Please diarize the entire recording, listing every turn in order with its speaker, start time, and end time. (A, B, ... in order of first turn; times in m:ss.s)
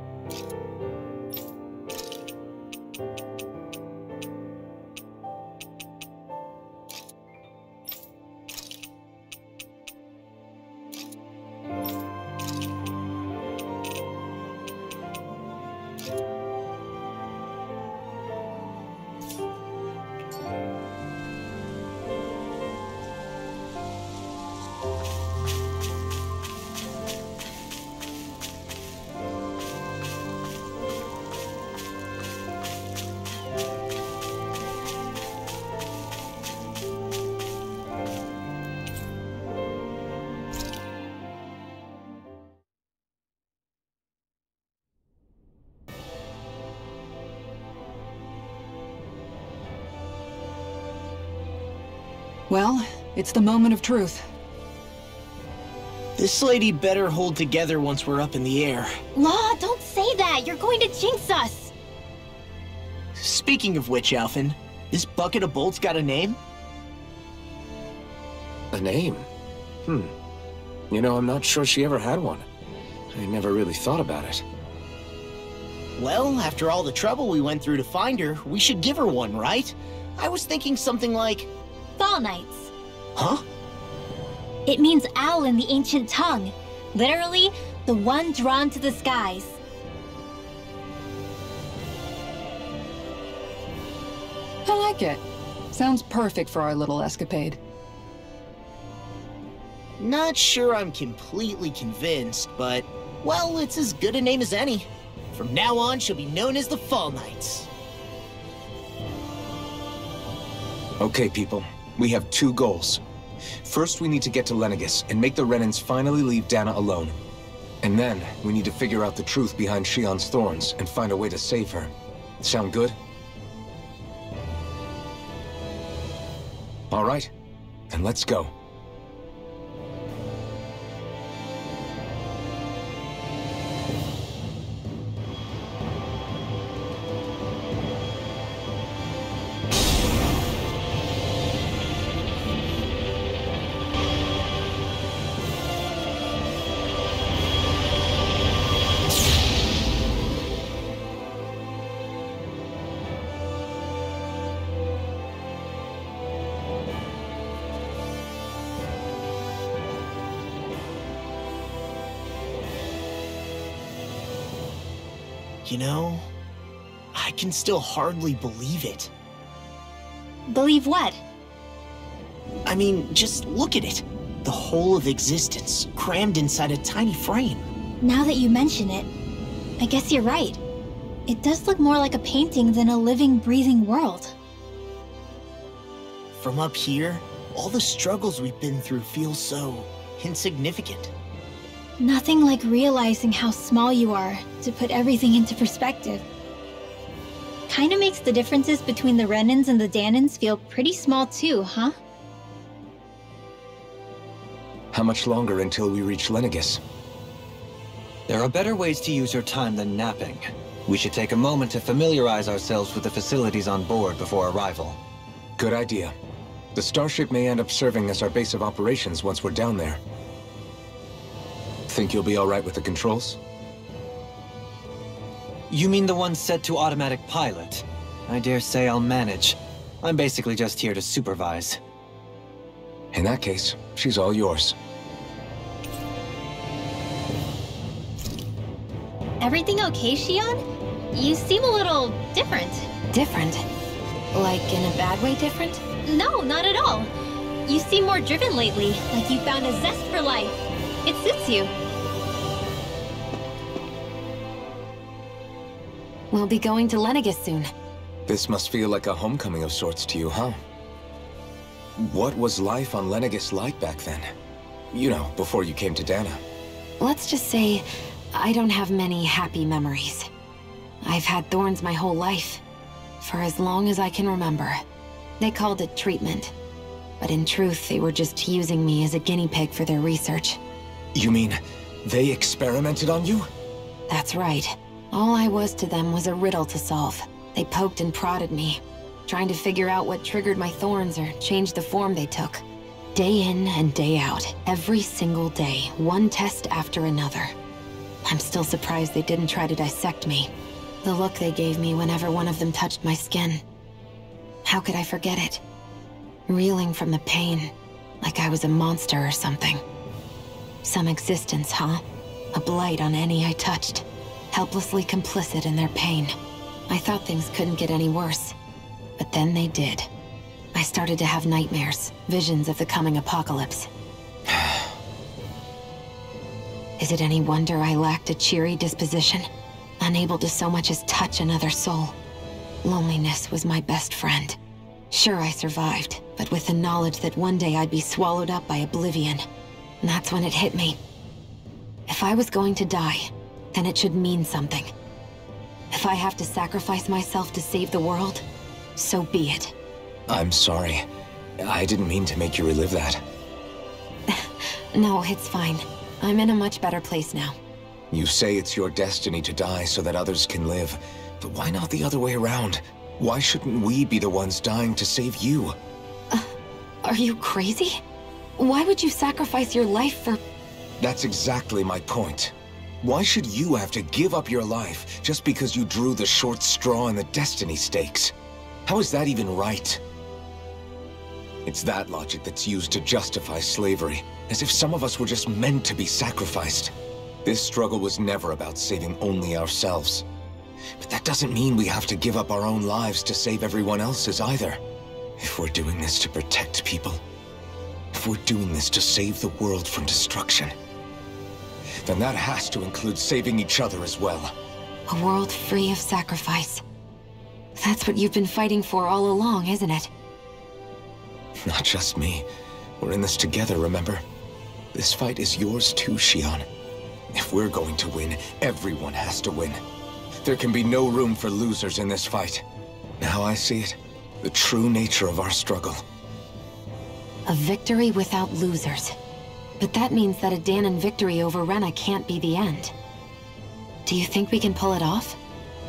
0:52.5-0:54.2 A
0:56.2-0:59.0 B
0:59.1-1:01.7 C
1:03.2-1:06.4 B
1:08.7-1:09.2 D
1:09.8-1:10.1 D
1:10.9-1:12.4 D
1:13.1-1:14.4 D
1:16.0-1:21.5 B
1:22.0-1:22.7 C
1:23.2-1:23.4 B
1:24.7-1:29.6 C
1:34.6-1:37.6 A
1:40.0-1:47.7 B
1:51.0-1:53.0 D
1:53.6-1:57.2 D
1:57.8-2:03.0 D
2:06.9-2:07.3 D
2:07.9-2:08.5 D
2:45.6-2:46.3 B
2:47.1-2:49.1 B
2:50.5-2:51.2 C
2:52.6-2:57.7 B
2:58.0-2:59.1 C
2:59.8-3:00.6 C
3:01.3-3:04.3 C
3:06.3-3:11.1 B
3:12.0-3:16.2 C
3:17.7-3:21.9 C
3:24.9-3:26.8 D
3:28.3-3:35.0 E
3:35.6-3:36.1 D
3:36.7-3:40.0 D
3:41.9-3:43.4 D
3:45.7-3:51.8 E
3:53.1-3:54.7 D
3:59.4-4:00.6 C
4:01.1-4:02.9 C
4:03.1-4:03.6 F
4:04.3-4:05.8 F
4:06.0-4:07.1 C
4:07.6-4:11.7 C
4:16.3-4:17.7 F
4:18.3-4:20.6 D
4:22.0-4:24.3 D
4:24.9-4:26.4 D
4:27.0-4:30.3 F
4:31.0-4:32.6 F
4:33.2-4:34.8 F
4:35.4-4:36.5 F
4:37.2-4:40.6 F
4:41.1-4:43.5 D
4:44.1-4:52.6 F
4:53.1-4:57.5 F
4:58.2-5:00.5 F
5:01.0-5:03.6 F
5:04.6-5:05.6 F
5:06.5-5:09.8 F
5:10.8-5:16.3 F
5:16.9-5:18.5 F
5:19.2-5:20.1 F
5:20.7-5:23.9 F
5:24.5-5:24.9 D
5:27.0-5:29.5 F
5:30.0-5:32.1 F
5:32.8-5:34.6 F
5:35.1-5:39.4 F
5:40.0-5:41.0 F
5:42.1-5:44.9 F
5:45.9-5:48.4 F
5:49.0-5:49.7 F
5:50.3-5:51.0 D
5:51.6-5:53.2 D
5:54.3-5:57.6 F
5:58.1-6:05.8 D
6:07.0-6:08.0 F
6:08.6-6:10.4 F
6:11.0-6:18.3 D
6:18.8-6:20.0 D
6:21.6-6:26.9 D
6:27.4-6:30.2 D
6:31.0-6:34.8 D
6:35.4-6:37.2 D
6:38.1-6:40.7 D
6:42.0-6:44.5 D
6:45.1-6:46.8 F
6:47.8-6:50.1 F
6:51.6-6:52.4 D
6:53.0-6:54.2 D
6:54.9-6:56.6 D
6:57.3-6:59.8 D
7:00.4-7:02.6 D
7:03.2-7:06.0 D
7:07.4-7:09.2 F
7:09.8-7:12.9 F
7:14.0-7:15.4 F